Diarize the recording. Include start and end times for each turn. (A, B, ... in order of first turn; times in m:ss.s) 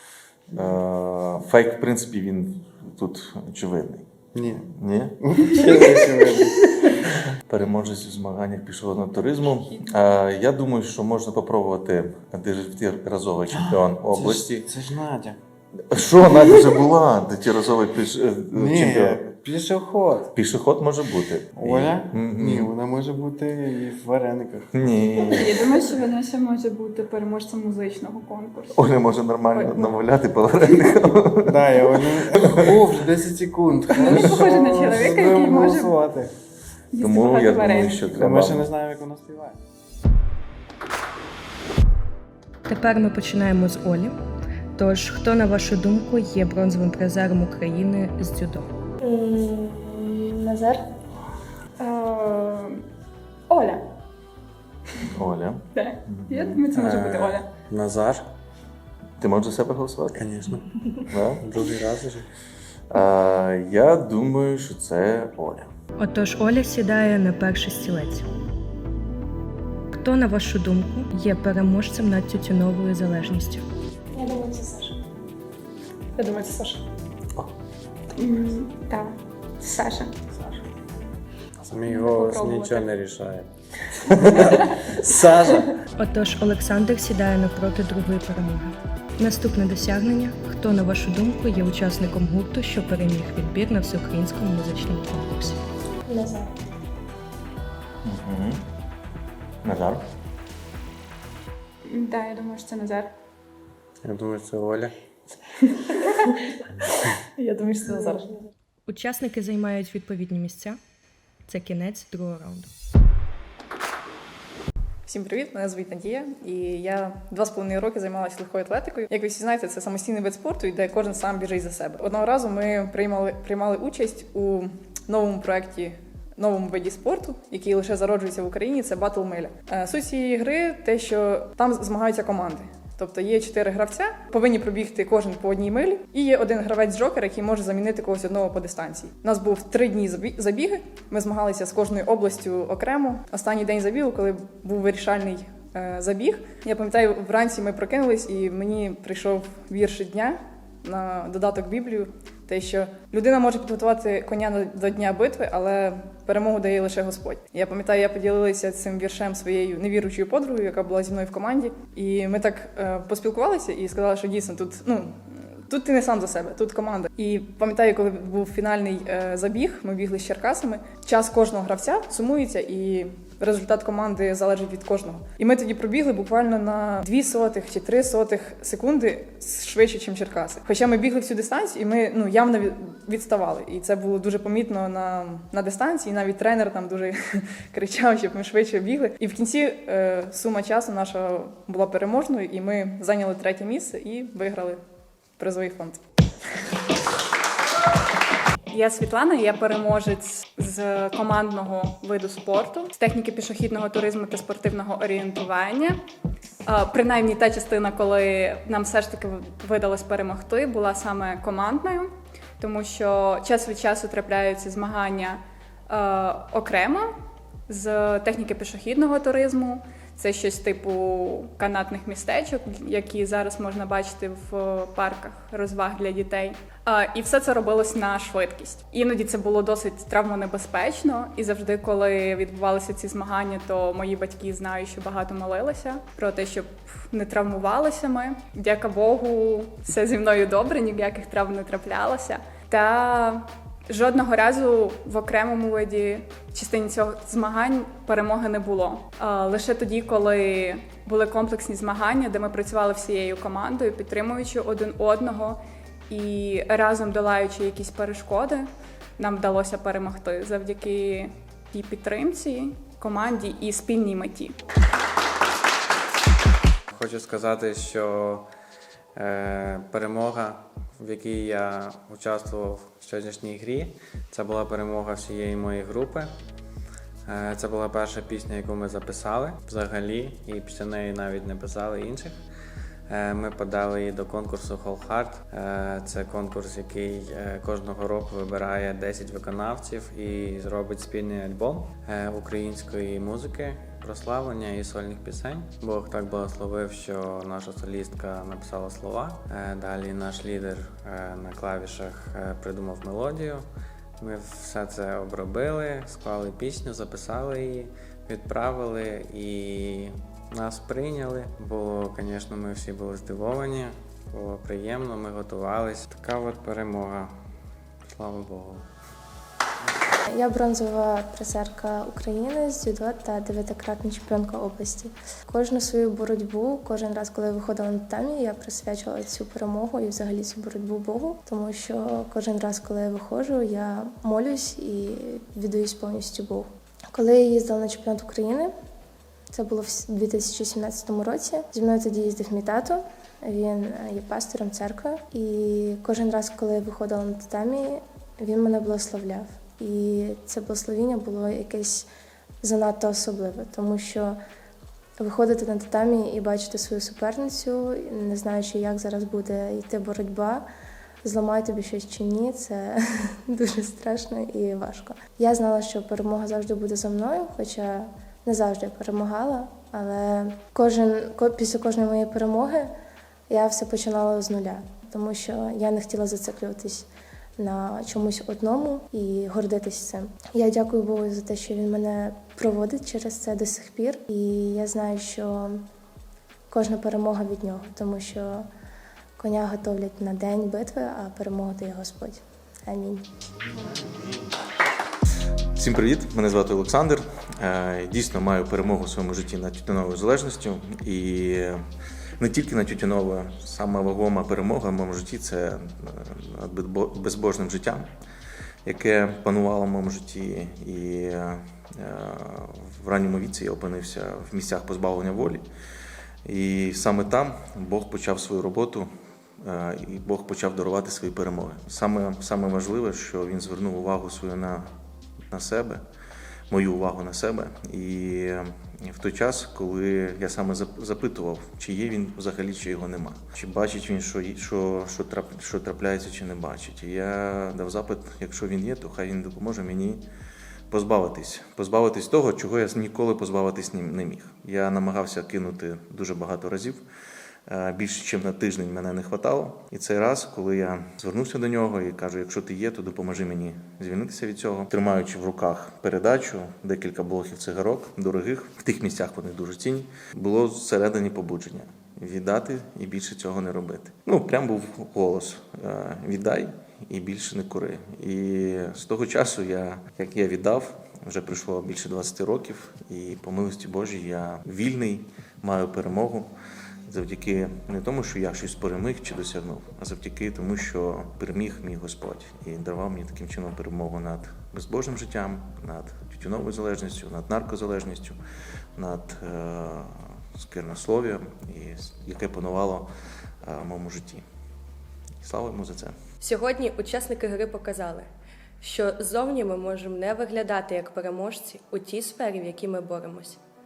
0:00.5-0:04.1 A
0:04.4-0:04.6 B
0:04.7-0:05.9 A
0:05.5-0:06.6 B
0:07.5-0:14.7 A
0:13.5-0:15.4 B
0:15.9-0:19.3 A
0:18.5-0:20.3 B
0:19.5-0:20.1 C
0:20.3-0:22.7 A
0:21.6-0:24.7 B
0:24.7-0:25.7 A
0:25.3-0:28.8 D
0:28.8-0:32.8 A
0:29.5-0:29.9 D
0:31.4-0:36.3 B
0:34.0-0:35.9 D
0:34.0-0:34.3 A
0:36.9-0:38.2 D
0:37.0-0:38.7 A
0:38.2-0:39.6 B
0:42.7-0:44.2 E
0:44.8-0:48.7 E
0:49.0-0:50.8 F
0:51.8-0:52.8 D
0:53.5-0:53.9 D
0:55.1-0:57.4 A
0:55.7-0:57.5 D
0:57.7-0:58.3 C
0:59.2-1:00.3 A
1:00.1-1:00.7 C
1:01.1-1:01.4 A
1:01.4-1:02.3 C
1:02.9-1:05.7 A
1:06.0-1:08.2 E
1:09.9-1:13.6 E
1:14.1-1:15.0 F
1:16.2-1:16.8 D
1:18.2-1:20.1 D
1:21.7-1:23.5 C
1:21.8-1:22.9 D
1:25.1-1:25.6 B
1:26.0-1:35.6 E
1:36.1-1:36.5 F
1:38.0-1:38.6 A
1:39.6-1:40.0 A
1:41.9-1:43.1 D
1:44.0-1:44.9 C
1:47.4-1:48.1 D
1:48.9-1:50.8 E
1:51.5-1:52.7 E
1:55.1-3:14.8 G
3:15.4-3:16.0 G
3:18.7-3:26.0 D
3:26.7-3:37.1 D
3:37.7-4:24.6 D
4:27.0-4:28.1 C
4:27.1-4:28.4 B
4:29.2-4:36.3 B
4:29.9-4:30.2 C
4:37.3-4:42.4 B
4:43.1-5:03.6 B
4:51.5-4:51.9 C
4:53.9-4:54.2 C
4:55.9-4:56.9 C
4:57.5-4:58.3 C
5:04.2-5:17.3 B
5:18.1-5:18.8 B
5:20.3-5:38.7 F
5:39.5-5:52.1 F
5:52.6-5:54.4 F
5:55.2-6:00.6 F
6:01.2-6:12.9 F
6:13.5-6:25.8 F
6:26.7-6:28.7 F
6:29.4-6:33.2 F
6:35.8-6:41.8 A
6:42.4-6:48.1 A
6:48.8-6:55.6 A
6:56.4-6:59.1 A
6:59.6-7:04.9 A
7:05.5-7:06.0 A
7:06.7-7:20.3 A
7:20.9-7:27.0 A
7:27.7-7:56.5 A
7:57.1-8:08.4 A
8:09.0-8:13.1 A
8:13.6-8:14.4 A
8:15.4-8:16.2 A
8:16.4-8:18.3 H
8:18.8-8:23.6 H